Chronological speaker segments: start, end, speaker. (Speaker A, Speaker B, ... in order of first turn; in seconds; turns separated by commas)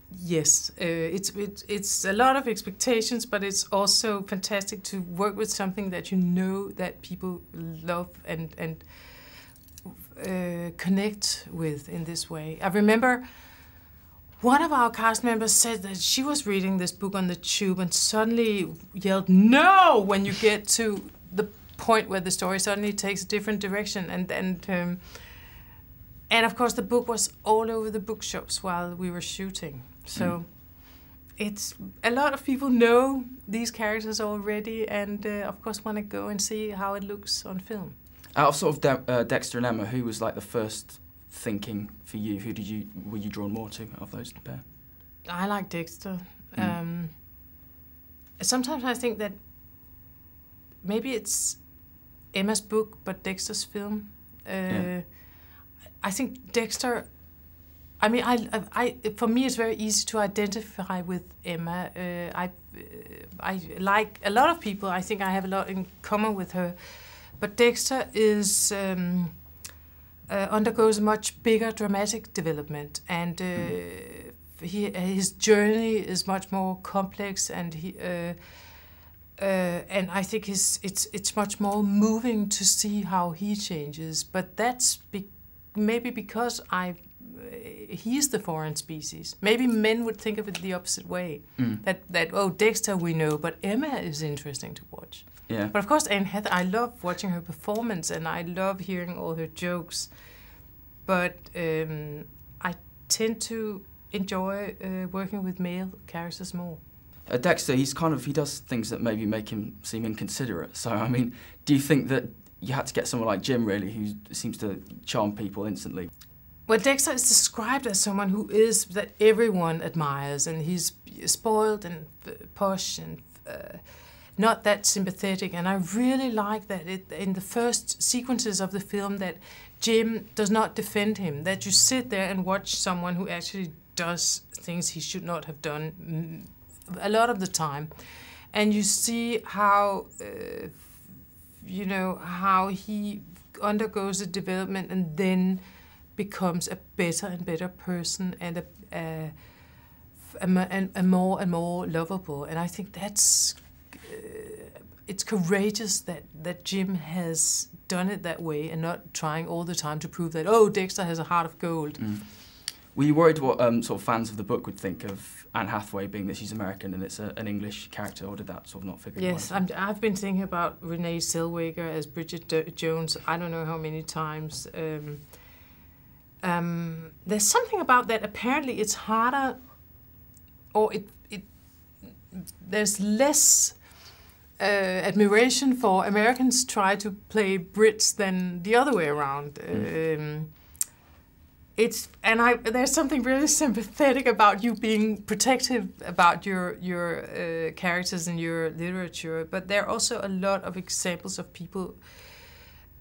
Speaker A: 0.1-13.3, Speaker A: 14.4-25.4, Speaker A: 26.3-38.0, Speaker B: 38.4-44.6, Speaker A: 45.2-47.2, Speaker A: 48.4-49.4, Speaker A: 50.8-69.4, Speaker A: 70.3-78.7, Speaker A: 79.4-100.2, Speaker B: 91.6-91.8, Speaker B: 95.5-95.7, Speaker A: 101.0-106.8, Speaker B: 107.3-116.1, Speaker A: 116.7-123.8, Speaker A: 124.4-141.0, Speaker A: 141.6-149.3, Speaker A: 150.2-162.0, Speaker B: 162.0-169.7, Speaker A: 169.2-175.4, Speaker A: 176.4-179.7, Speaker A: 180.7-184.0, Speaker A: 184.6-190.6, Speaker A: 191.8-202.5